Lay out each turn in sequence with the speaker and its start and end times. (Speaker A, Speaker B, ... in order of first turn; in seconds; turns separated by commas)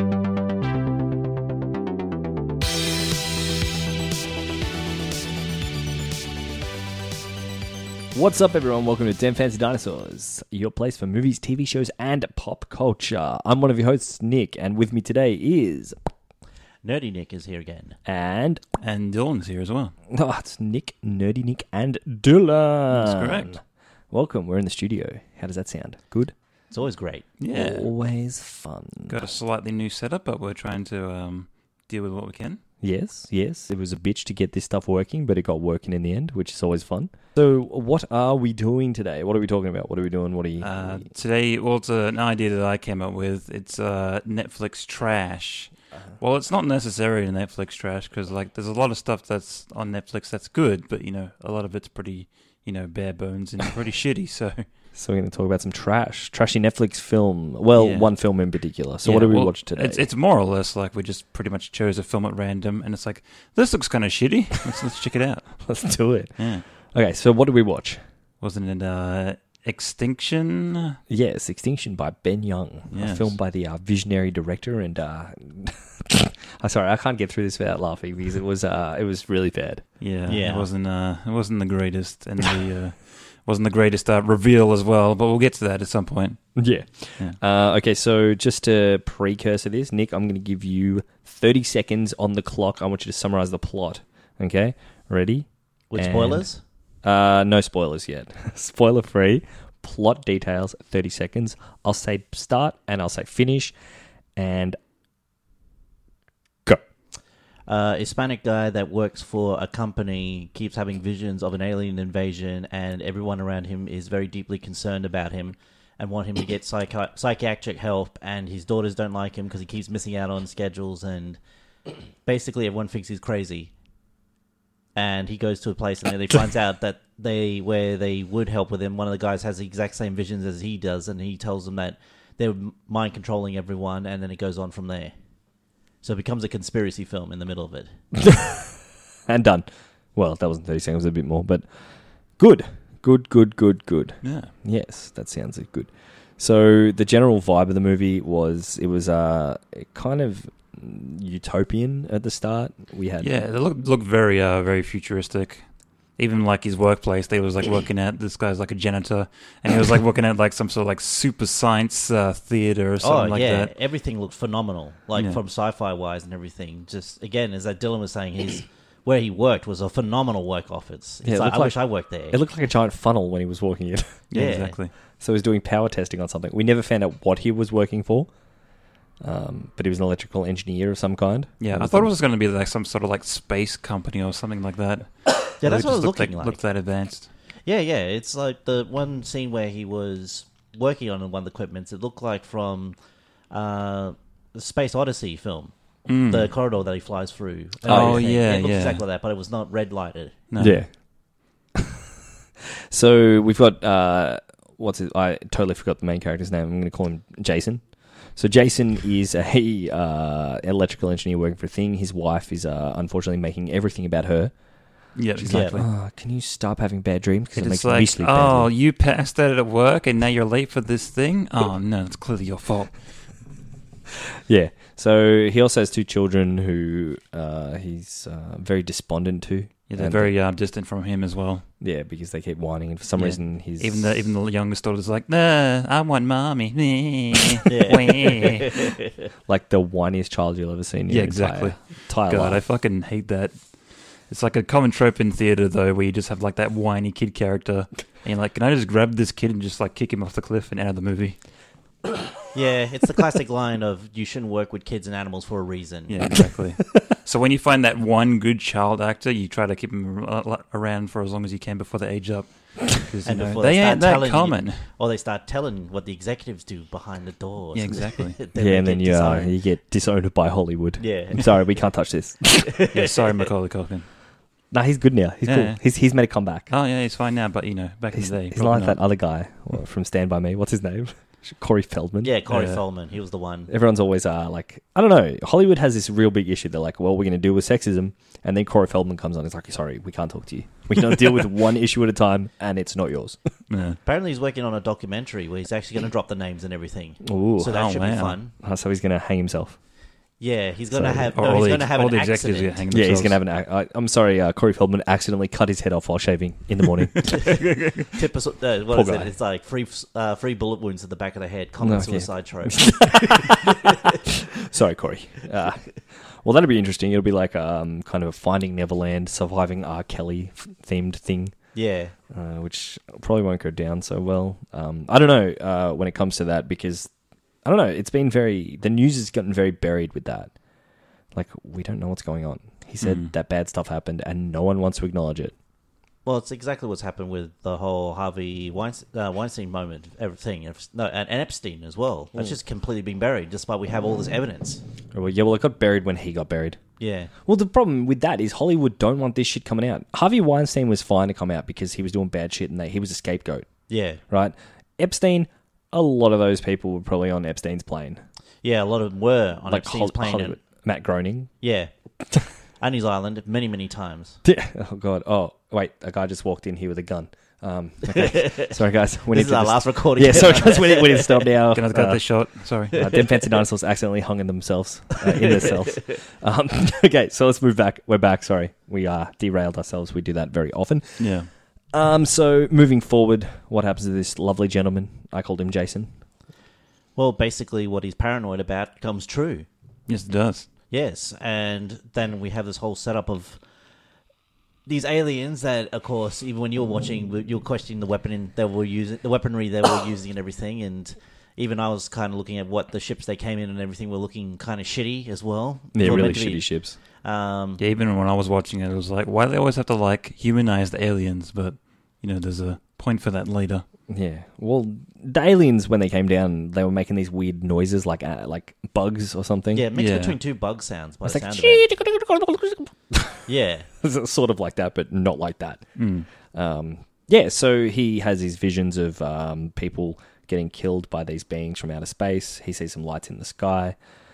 Speaker A: 8.1-16.0, Speaker B: 16.8-18.0, Speaker A: 18.0-18.6, Speaker C: 18.8-19.9, Speaker A: 20.1-26.3, Speaker C: 22.9-23.6, Speaker B: 26.7-27.2, Speaker C: 27.4-27.9, Speaker A: 27.5-29.2, Speaker C: 29.1-32.6, Speaker A: 32.8-41.0, Speaker C: 40.6-54.6, Speaker A: 54.9-60.0, Speaker C: 57.8-65.8, Speaker A: 65.7-68.0, Speaker C: 66.4-66.6, Speaker C: 68.4-71.0, Speaker A: 71.1-80.0, Speaker C: 72.9-73.3, Speaker C: 80.0-87.4, Speaker B: 80.3-80.7, Speaker A: 86.5-96.5, Speaker B: 95.9-96.6, Speaker A: 97.0-103.8, Speaker A: 104.3-104.8, Speaker B: 107.7-121.4, Speaker B: 122.2-123.7, Speaker B: 124.9-135.1, Speaker B: 136.0-137.9, Speaker A: 138.2-138.6, Speaker A: 139.3-153.3, Speaker C: 144.2-144.5, Speaker C: 153.2-163.7, Speaker B: 163.0-172.4, Speaker A: 171.2-174.2, Speaker C: 174.3-174.9, Speaker B: 174.3-174.8, Speaker A: 175.2-178.3, Speaker A: 179.2-182.1, Speaker C: 181.6-187.3, Speaker B: 185.6-186.6, Speaker B: 187.6-192.9, Speaker B: 193.5-200.3, Speaker C: 196.1-196.5, Speaker A: 197.8-198.2, Speaker C: 197.8-199.0, Speaker C: 200.5-200.8, Speaker A: 200.6-201.0, Speaker A: 202.9-218.7, Speaker C: 215.1-215.8, Speaker B: 215.4-215.8, Speaker C: 217.5-223.4, Speaker A: 224.5-230.3, Speaker C: 229.9-231.7, Speaker A: 231.8-234.3, Speaker C: 233.2-238.7, Speaker B: 237.7-239.1, Speaker A: 239.5-242.6, Speaker C: 241.1-251.4, Speaker B: 252.5-256.2, Speaker C: 256.1-264.9, Speaker B: 263.2-269.5, Speaker C: 267.7-268.4, Speaker A: 268.5-272.7, Speaker B: 271.0-271.6, Speaker B: 272.8-273.1, Speaker C: 272.9-274.1, Speaker A: 274.7-276.7, Speaker C: 275.4-275.9, Speaker C: 276.7-279.0, Speaker A: 278.1-282.3, Speaker B: 282.2-283.7, Speaker C: 282.5-282.8, Speaker A: 283.7-293.4, Speaker C: 293.7-294.0, Speaker B: 294.1-298.5, Speaker A: 297.2-297.8, Speaker C: 297.7-298.4, Speaker A: 298.6-299.8, Speaker B: 300.4-302.8, Speaker A: 300.9-301.3, Speaker C: 301.4-303.4, Speaker A: 302.9-307.6, Speaker B: 307.3-313.9, Speaker A: 308.9-309.3, Speaker A: 311.8-313.7, Speaker A: 314.6-321.8, Speaker B: 321.7-322.1, Speaker A: 322.3-327.1, Speaker A: 327.6-330.5, Speaker A: 331.3-335.5, Speaker C: 333.0-333.3, Speaker B: 336.2-344.8, Speaker A: 345.1-346.8, Speaker B: 347.0-347.3, Speaker A: 347.4-353.7, Speaker B: 353.9-354.2, Speaker A: 354.3-358.2, Speaker B: 358.6-360.6, Speaker A: 359.7-361.5, Speaker B: 361.6-361.9, Speaker B: 362.8-364.4, Speaker A: 364.4-386.1, Speaker B: 368.1-368.7, Speaker B: 369.3-371.5, Speaker C: 371.7-372.9, Speaker B: 372.9-373.2, Speaker C: 381.2-381.5, Speaker B: 387.1-389.7, Speaker C: 390.1-390.7, Speaker B: 390.9-393.6, Speaker B: 394.9-407.8, Speaker A: 405.9-407.0, Speaker C: 407.8-413.8, Speaker A: 414.1-419.8, Speaker B: 419.7-421.8, Speaker C: 419.9-420.4, Speaker A: 421.2-423.5, Speaker B: 423.4-423.9, Speaker A: 424.0-434.0, Speaker C: 426.0-426.3